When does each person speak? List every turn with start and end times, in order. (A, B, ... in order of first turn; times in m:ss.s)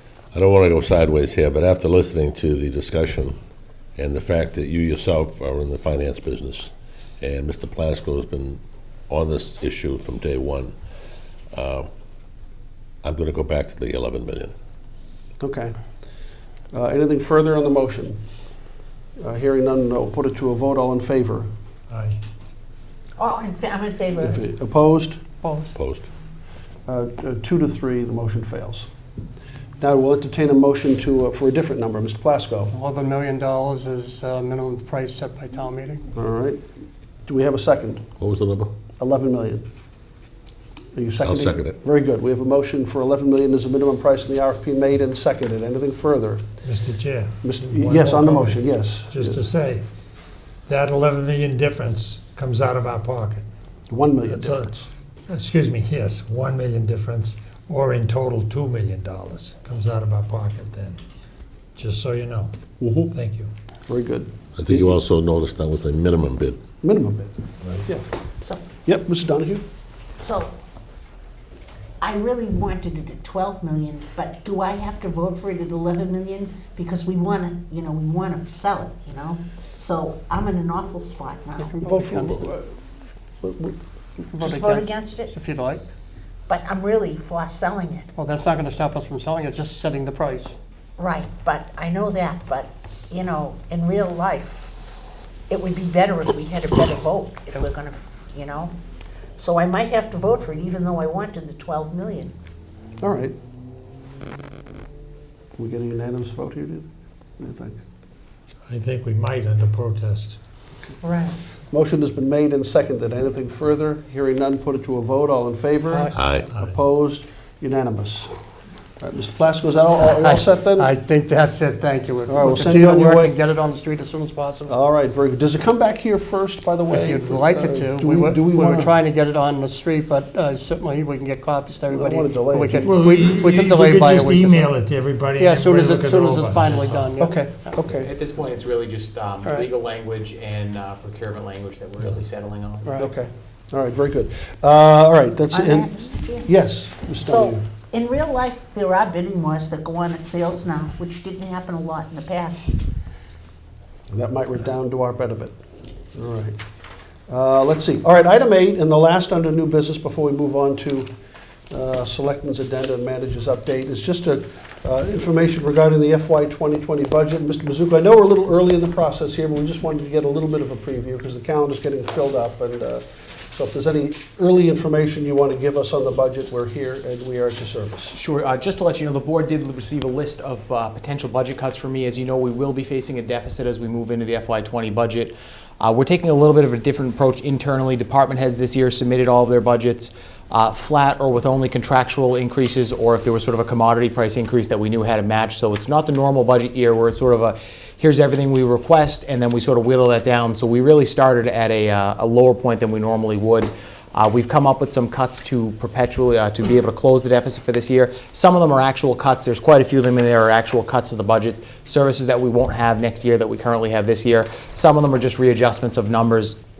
0:00.3-0:03.4 A
0:04.0-0:10.7 A
0:11.5-0:11.9 A
0:13.0-0:14.5 A
0:15.4-0:15.8 B
0:16.7-0:18.2 B
0:19.2-0:21.5 B
0:21.9-0:22.2 C
0:23.2-0:24.4 D
0:24.2-0:25.2 B
0:25.4-0:25.7 E
0:25.7-0:26.1 A
0:26.9-0:28.9 B
0:29.8-0:32.7 B
0:32.7-0:36.0 E
0:36.1-0:36.6 B
0:37.3-0:38.0 B
0:38.2-0:38.7 A
0:39.0-0:39.7 B
0:40.9-0:46.4 B
0:41.2-0:41.8 A
0:46.6-0:49.8 C
0:47.4-0:49.4 B
0:50.7-0:53.4 C
0:53.9-0:54.9 B
0:54.2-0:54.7 C
0:55.3-1:01.0 C
1:01.8-1:02.6 C
1:02.8-1:03.1 B
1:03.1-1:03.5 C
1:03.9-1:05.0 B
1:04.6-1:06.6 A
1:06.8-1:08.0 B
1:08.8-1:09.6 B
1:10.2-1:10.5 D
1:12.0-1:21.8 D
1:21.6-1:22.5 E
1:21.8-1:22.7 B
1:23.4-1:23.8 B
1:24.3-1:25.8 E
1:24.4-1:25.3 D
1:26.5-1:28.1 D
1:28.2-1:30.6 E
1:31.0-1:34.7 D
1:35.5-1:38.7 D
1:39.4-1:42.3 D
1:43.0-1:43.3 B
1:45.6-1:47.8 B
1:48.7-1:50.4 C
1:51.0-1:51.4 D
1:51.7-1:58.3 B
1:56.1-1:56.5 A
1:59.0-2:00.9 B
2:00.1-2:04.8 E
2:02.3-2:03.4 B
2:04.7-2:08.9 B
2:06.9-2:14.7 E
2:11.9-2:13.0 B
2:12.8-2:17.1 C
2:15.4-2:17.8 E
2:17.2-2:18.1 B
2:18.0-2:23.0 F
2:22.8-2:23.1 E
2:23.0-2:27.6 B
2:25.5-2:26.5 D
2:27.2-2:32.8 D
2:34.1-2:35.6 B
2:36.1-2:36.6 B
2:37.3-2:41.1 B
2:41.7-2:58.2 B
2:58.1-3:36.6 F